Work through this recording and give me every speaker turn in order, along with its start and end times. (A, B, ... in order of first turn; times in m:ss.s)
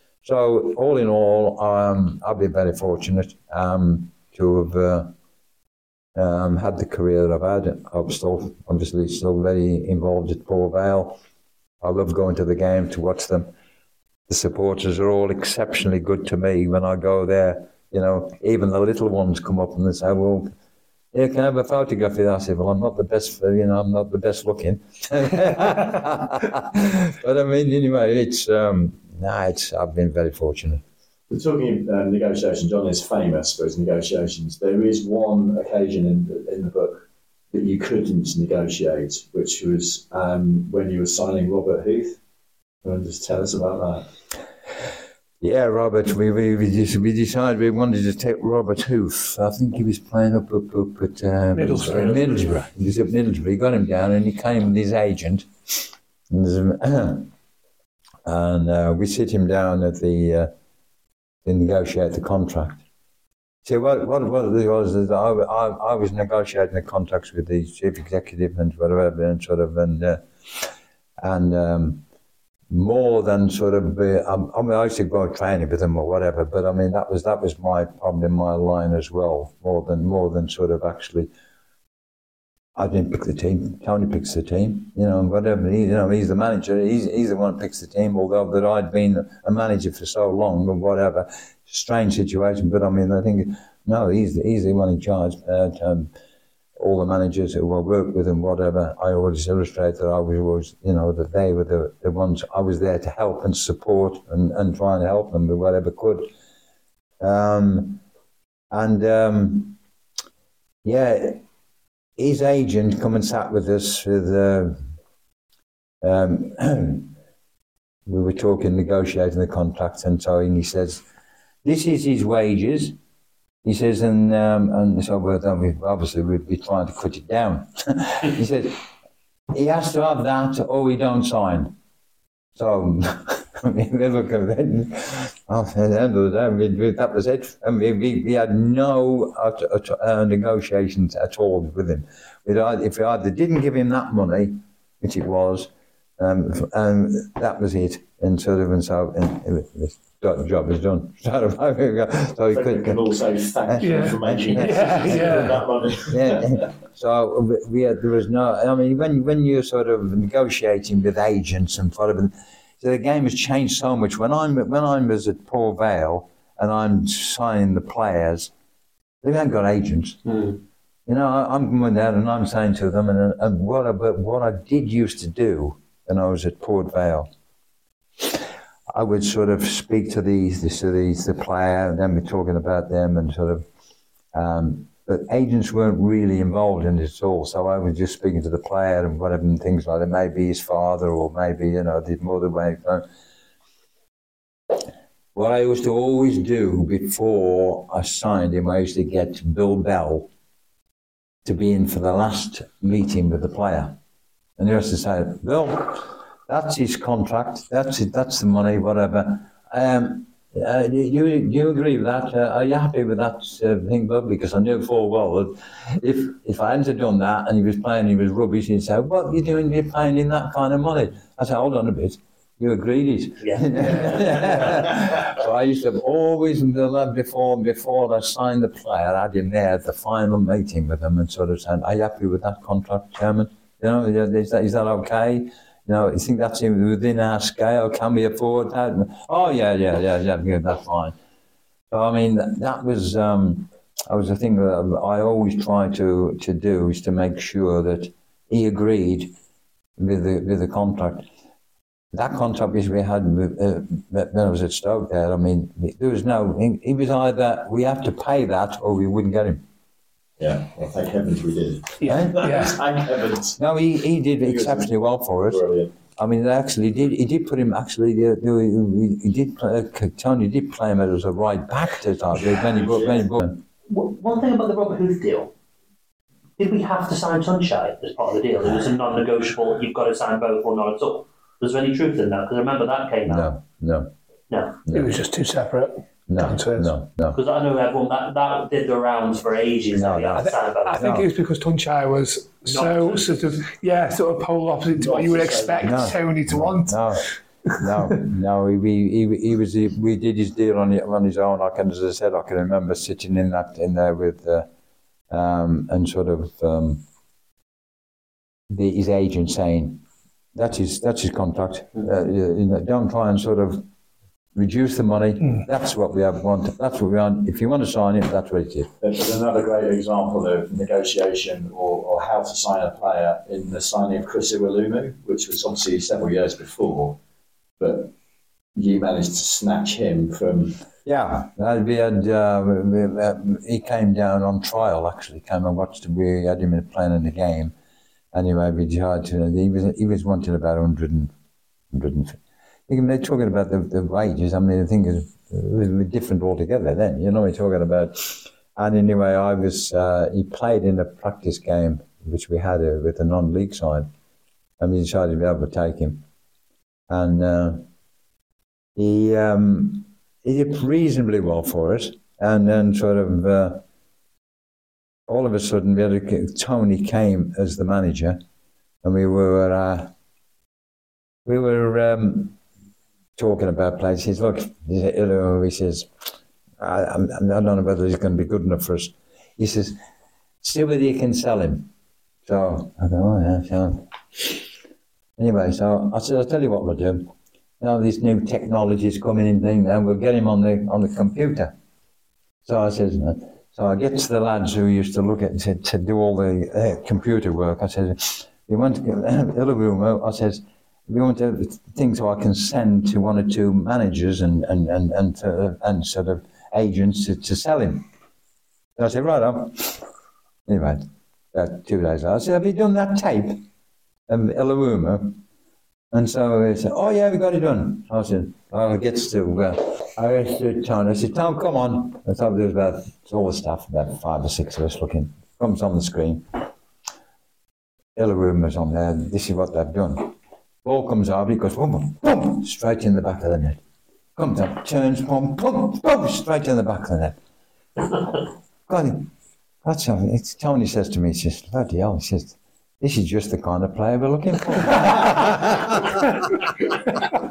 0:00.2-0:05.1 A
0:06.2-0:11.2 A
0:11.8-0:13.5 A
0:14.3-0:20.5 A
0:21.1-0:30.8 A
0:31.3-0:42.2 B
0:42.8-0:44.1 B
0:45.4-0:55.5 A
0:51.5-0:52.4 C
0:56.3-0:57.3 A
0:58.2-1:00.5 A
1:01.4-1:02.8 A
1:03.6-1:10.6 A
1:11.2-1:12.0 A
1:12.7-1:21.3 A
1:22.8-1:36.1 A
1:36.8-1:46.3 A
1:47.2-1:48.0 A
1:48.7-1:49.8 A
1:50.8-1:51.4 A
1:52.2-1:54.8 A
1:56.0-1:57.1 A
1:58.0-2:01.0 A
2:01.6-2:03.0 A
2:03.6-2:08.8 A
2:09.5-2:11.7 A
2:12.6-2:33.1 A
2:32.5-2:36.6 B
2:33.6-2:48.5 A
2:33.8-2:35.6 C
2:49.2-2:50.2 A
2:50.3-2:50.6 D
2:51.1-2:57.3 A
2:58.9-3:03.6 A
3:04.3-3:13.0 A
3:15.3-3:20.3 A
3:21.4-3:24.0 A
3:24.6-4:01.1 A
3:43.4-3:44.2 D
4:01.9-4:09.3 A
4:10.0-4:11.2 A
4:12.1-4:19.6 A
4:20.4-4:23.6 B
4:22.0-4:22.8 C
4:22.0-4:22.6 A
4:23.6-4:25.6 A
4:24.4-4:25.9 B
4:26.2-4:33.6 A
4:32.7-4:33.2 B
4:33.9-4:35.5 D
4:36.6-4:43.5 D
4:43.3-4:44.1 A
4:44.5-4:44.8 D
4:44.9-4:45.2 A
4:44.9-4:46.9 C
4:46.3-4:47.4 A
4:47.3-4:51.0 D
4:49.9-4:51.3 A
4:50.4-4:57.2 C
4:52.6-4:53.4 D
4:54.9-4:56.2 B
4:55.8-5:04.7 A
5:05.3-5:07.0 A
5:08.7-5:10.0 A
5:10.5-5:13.8 A
5:14.5-5:18.9 A
5:19.0-5:27.2 B
5:27.8-5:28.1 B
5:28.7-5:30.8 B
5:31.0-5:37.7 A
5:38.3-5:41.3 A
5:41.9-5:42.4 A
5:42.9-5:54.1 A
5:54.8-5:56.2 A
5:57.1-5:57.8 A
5:59.0-6:03.8 A
6:05.3-6:08.4 A
6:09.0-6:10.1 A
6:11.4-6:12.6 A
6:13.4-6:16.1 A
6:16.8-6:20.0 A
6:20.6-6:21.9 A
6:22.4-6:24.6 A
6:25.4-6:31.7 A
6:32.6-6:48.0 A
6:49.0-6:50.0 A
6:50.7-6:53.6 A
6:54.3-6:55.4 A
6:56.1-7:06.5 A
7:08.2-7:13.8 A
7:14.4-7:17.4 A
7:18.9-7:19.3 A
7:19.8-7:26.4 A